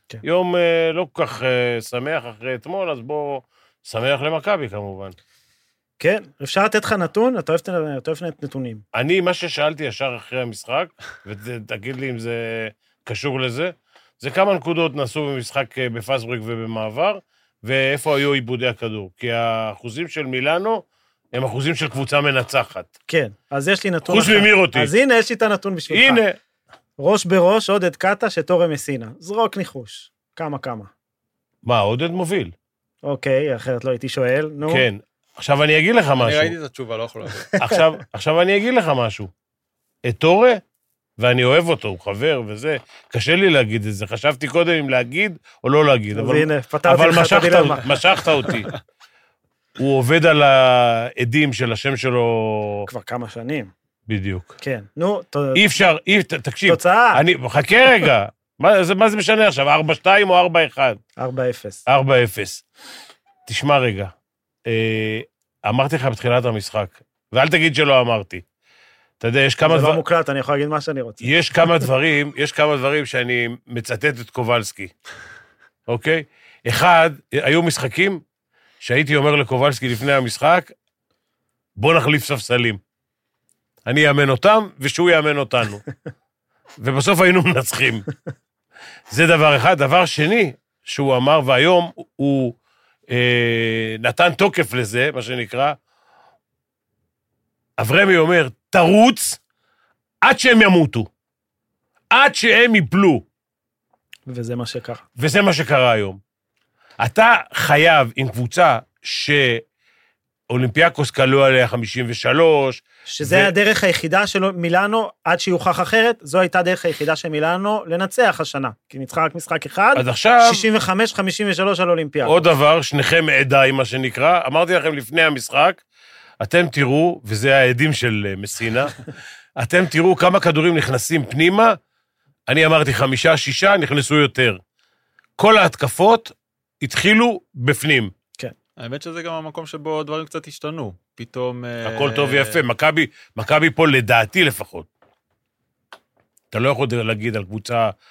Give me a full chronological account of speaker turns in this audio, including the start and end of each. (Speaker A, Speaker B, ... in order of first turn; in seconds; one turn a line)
Speaker A: 0.2-5.2
Speaker B: 6.0-8.8
Speaker A: 8.9-22.9
Speaker B: 23.1-26.2
Speaker A: 24.1-24.9
Speaker A: 25.9-26.4
Speaker B: 27.0-30.9
Speaker A: 31.6-32.5
Speaker B: 33.0-34.9
Speaker A: 34.7-36.5
Speaker C: 36.2-37.5
Speaker B: 37.4-37.9
Speaker A: 37.6-39.3
Speaker A: 40.0-40.6
Speaker A: 41.2-48.7
Speaker B: 46.1-48.0
Speaker A: 49.8-52.9
Speaker B: 52.9-53.7
Speaker A: 54.1-54.5
Speaker B: 54.6-55.6
Speaker A: 55.5-61.0
Speaker B: 56.7-57.2
Speaker B: 61.2-61.8
Speaker A: 61.9-62.6
Speaker A: 63.5-64.1
Speaker A: 64.7-68.4
Speaker A: 69.2-70.0
Speaker B: 69.6-71.9
Speaker A: 71.2-74.9
Speaker A: 75.9-78.2
Speaker A: 78.8-80.7
Speaker A: 81.8-82.8
Speaker A: 83.9-85.8
Speaker A: 86.8-88.1
Speaker A: 89.1-92.6
Speaker A: 93.1-95.8
Speaker A: 97.8-99.4
Speaker A: 100.2-101.1
Speaker A: 102.1-103.2
Speaker B: 104.3-105.0
Speaker A: 105.2-106.2
Speaker A: 107.0-109.6
Speaker A: 110.5-113.5
Speaker B: 113.1-122.5
Speaker A: 120.0-120.7
Speaker A: 122.2-125.8
Speaker A: 126.4-129.1
Speaker A: 129.6-131.8
Speaker A: 132.5-134.6
Speaker A: 135.4-138.1
Speaker C: 138.8-142.6
Speaker A: 141.8-144.9
Speaker A: 146.5-147.9